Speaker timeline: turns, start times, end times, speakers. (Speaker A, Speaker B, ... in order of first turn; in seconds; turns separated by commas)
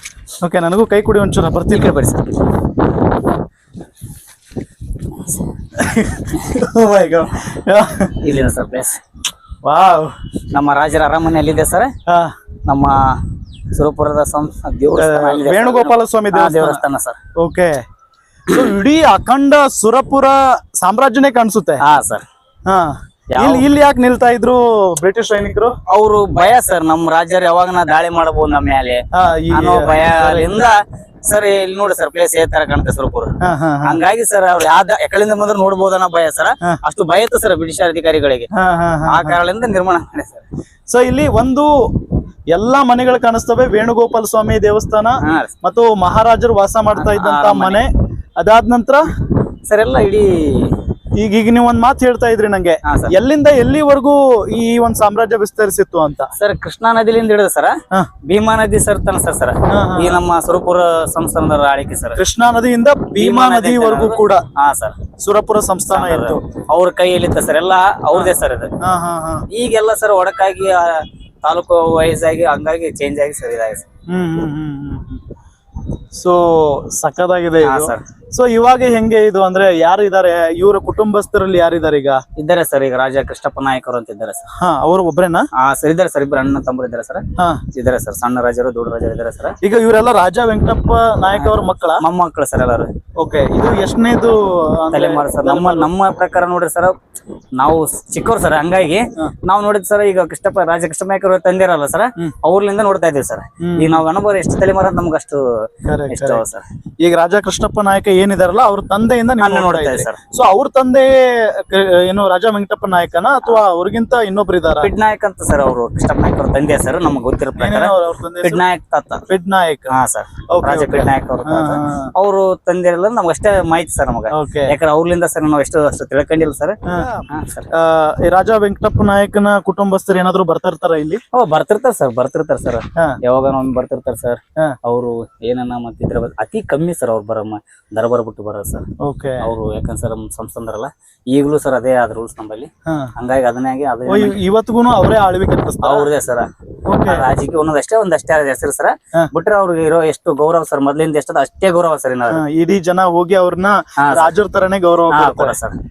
Speaker A: 0.4-2.0, Speaker B: 1.7-2.5, Speaker B: 5.1-5.5, Speaker A: 5.8-8.4, Speaker B: 6.3-7.2, Speaker B: 8.2-9.0, Speaker A: 9.6-10.2, Speaker B: 10.5-11.9, Speaker A: 12.1-12.4, Speaker B: 12.6-13.2, Speaker B: 13.7-17.2, Speaker A: 14.9-16.8, Speaker A: 17.4-17.8, Speaker A: 18.5-21.8, Speaker B: 21.8-22.2, Speaker A: 22.7-25.7, Speaker B: 23.3-23.6, Speaker B: 25.9-38.5, Speaker A: 29.1-30.7, Speaker A: 33.4-34.0, Speaker A: 38.5-39.4, Speaker B: 39.1-40.5, Speaker A: 40.9-49.1, Speaker B: 45.2-45.5, Speaker B: 47.0-47.8, Speaker B: 49.7-50.8, Speaker A: 51.1-56.3, Speaker B: 52.9-53.1, Speaker B: 56.4-62.2, Speaker A: 59.7-60.2, Speaker A: 62.2-64.5, Speaker B: 63.2-65.1, Speaker A: 65.1-66.4, Speaker B: 65.9-68.8, Speaker A: 68.1-69.5, Speaker B: 69.5-73.8, Speaker A: 74.1-75.2, Speaker A: 76.1-82.2, Speaker B: 77.6-78.1, Speaker B: 82.4-84.4, Speaker A: 84.6-85.5, Speaker B: 85.6-89.6, Speaker A: 87.4-87.7, Speaker A: 89.6-92.0, Speaker B: 91.3-92.9, Speaker A: 93.2-95.9, Speaker B: 94.9-96.9, Speaker B: 97.6-106.7, Speaker A: 103.6-104.0, Speaker A: 105.9-106.5, Speaker A: 107.0-114.9, Speaker B: 109.4-110.2, Speaker B: 114.8-119.3, Speaker A: 117.6-118.7, Speaker A: 119.3-119.9, Speaker B: 119.9-127.7, Speaker A: 120.5-122.1, Speaker A: 124.3-124.8, Speaker A: 126.9-131.2, Speaker B: 131.3-138.9, Speaker A: 139.0-139.5, Speaker B: 139.4-144.4, Speaker A: 142.9-143.1, Speaker A: 144.1-146.1, Speaker B: 145.8-146.5, Speaker A: 146.9-147.3, Speaker B: 147.0-152.4, Speaker A: 152.3-155.6, Speaker B: 154.0-154.3, Speaker B: 155.1-155.8